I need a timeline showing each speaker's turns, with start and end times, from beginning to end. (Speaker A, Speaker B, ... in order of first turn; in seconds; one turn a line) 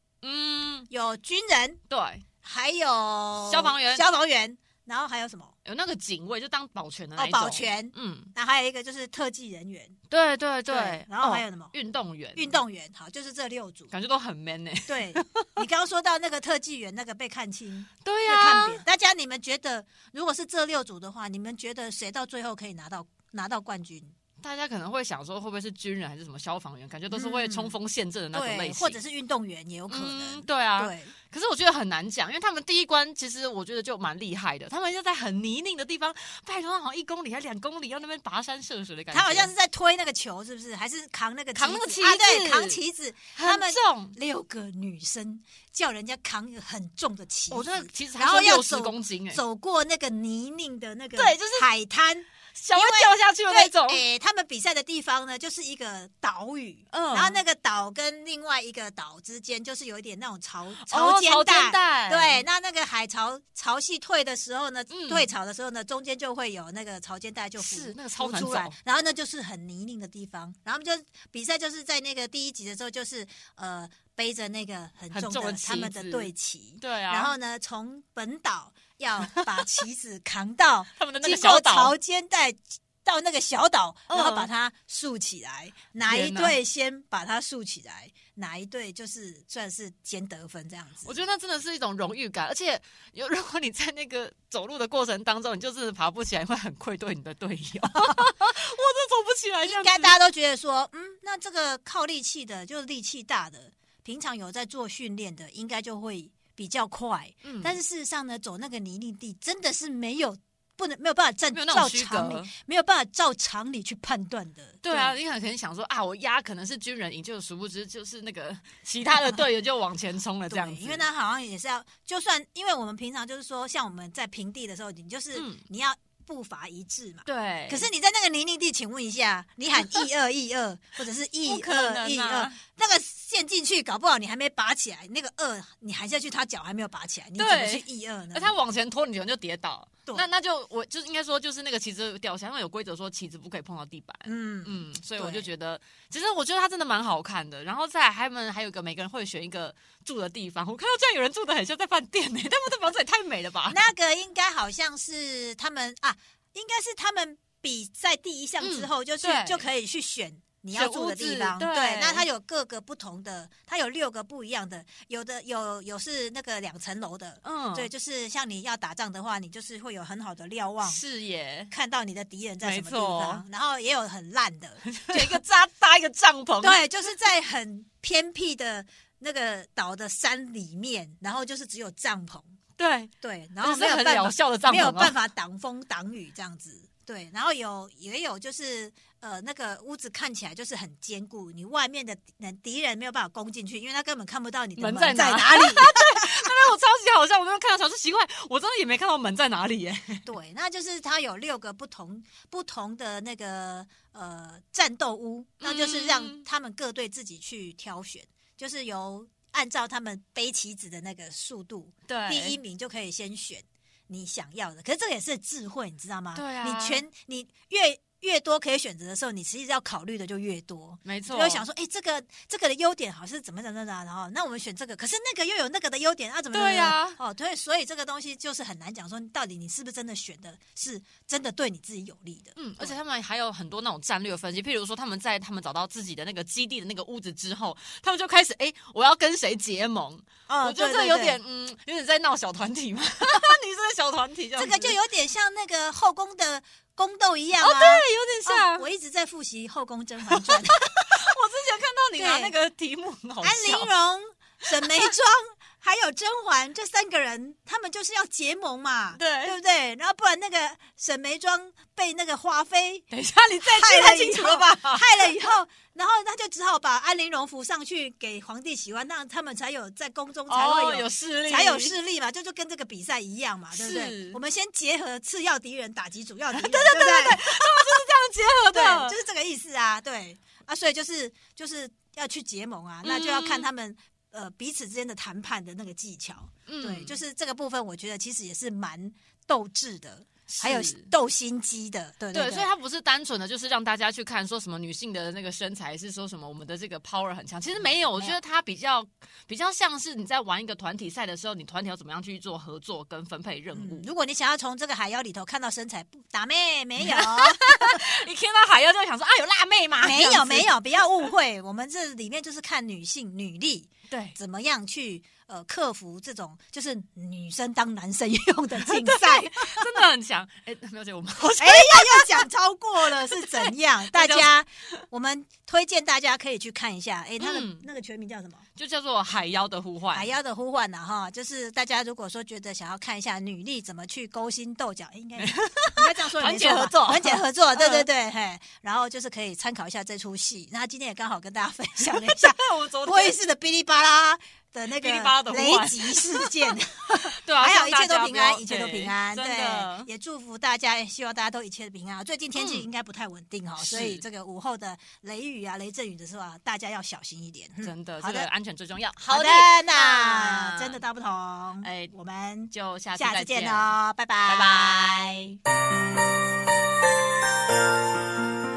Speaker A: 0.2-0.9
Speaker B: 0.9-1.8
Speaker A: 1.9-2.2
Speaker B: 2.4-5.5
Speaker A: 3.5-4.0
Speaker A: 5.6-8.3
Speaker B: 7.2-9.9
Speaker A: 10.1-12.6
Speaker B: 10.7-11.7
Speaker B: 12.3-13.9
Speaker A: 13.9-15.5
Speaker B: 14.9-24.1
Speaker A: 18.0-18.8
Speaker A: 24.4-29.0
Speaker B: 27.1-27.7
Speaker B: 28.3-31.1
Speaker A: 29.9-39.5
Speaker B: 39.1-91.2
Speaker A: 41.5-42.8
Speaker A: 43.3-44.1
Speaker A: 47.5-49.4
Speaker A: 51.1-51.7
Speaker A: 52.5-54.0
Speaker A: 56.9-57.4
Speaker A: 60.8-62.4
Speaker A: 64.9-65.3
Speaker A: 67.6-68.8
Speaker A: 75.1-77.3
Speaker A: 81.0-82.0
Speaker A: 84.1-84.5
Speaker A: 86.0-86.6
Speaker A: 91.0-100.2
Speaker B: 99.6-115.2
Speaker A: 107.4-107.8
Speaker A: 111.5-112.5
Speaker A: 114.8-121.0
Speaker B: 120.5-138.5
Speaker A: 125.3-125.6
Speaker A: 127.2-127.9
Speaker A: 131.4-132.6
Speaker A: 137.4-153.8
Speaker B: 144.2-145.5
Speaker B: 153.7-171.0
Speaker A: 158.6-159.7
Speaker A: 160.7-162.3
Speaker A: 167.4-167.9
Speaker A: 170.8-171.7
Speaker B: 171.7-175.4
Speaker A: 172.6-173.4
Speaker A: 174.8-176.9
Speaker B: 176.6-182.5
Speaker A: 182.8-183.1
Speaker B: 183.2-196.5
Speaker A: 183.6-185.1
Speaker A: 194.8-200.2
Speaker B: 200.2-232.9
Speaker A: 205.6-206.5
Speaker A: 212.1-212.6
Speaker A: 216.3-217.0
Speaker A: 221.0-221.6
Speaker A: 226.5-227.2
Speaker A: 232.6-244.9
Speaker B: 240.5-241.4
Speaker B: 244.6-251.0
Speaker A: 247.6-248.8
Speaker A: 250.3-253.9
Speaker B: 252.2-252.5
Speaker B: 253.4-263.0
Speaker A: 254.7-255.1
Speaker A: 259.1-259.6
Speaker A: 263.1-265.4
Speaker B: 263.6-277.9
Speaker A: 270.5-271.9
Speaker A: 273.7-274.4
Speaker A: 276.5-279.1
Speaker B: 278.7-292.7
Speaker A: 283.0-283.7
Speaker A: 286.6-287.2
Speaker A: 290.5-291.1
Speaker A: 292.3-304.1
Speaker B: 303.7-308.0
Speaker A: 307.0-311.3
Speaker B: 310.0-319.9
Speaker A: 314.1-314.4
Speaker A: 318.8-322.5
Speaker B: 321.6-328.6
Speaker A: 323.0-324.5
Speaker A: 327.4-327.8
Speaker A: 328.8-330.3
Speaker B: 330.1-358.5
Speaker A: 335.4-338.1
Speaker A: 342.0-343.4
Speaker A: 344.9-346.8
Speaker A: 347.4-350.1
Speaker A: 352.5-352.9
Speaker A: 353.8-354.2
Speaker A: 357.8-361.0
Speaker B: 359.3-365.5
Speaker A: 361.8-362.1
Speaker A: 362.7-365.6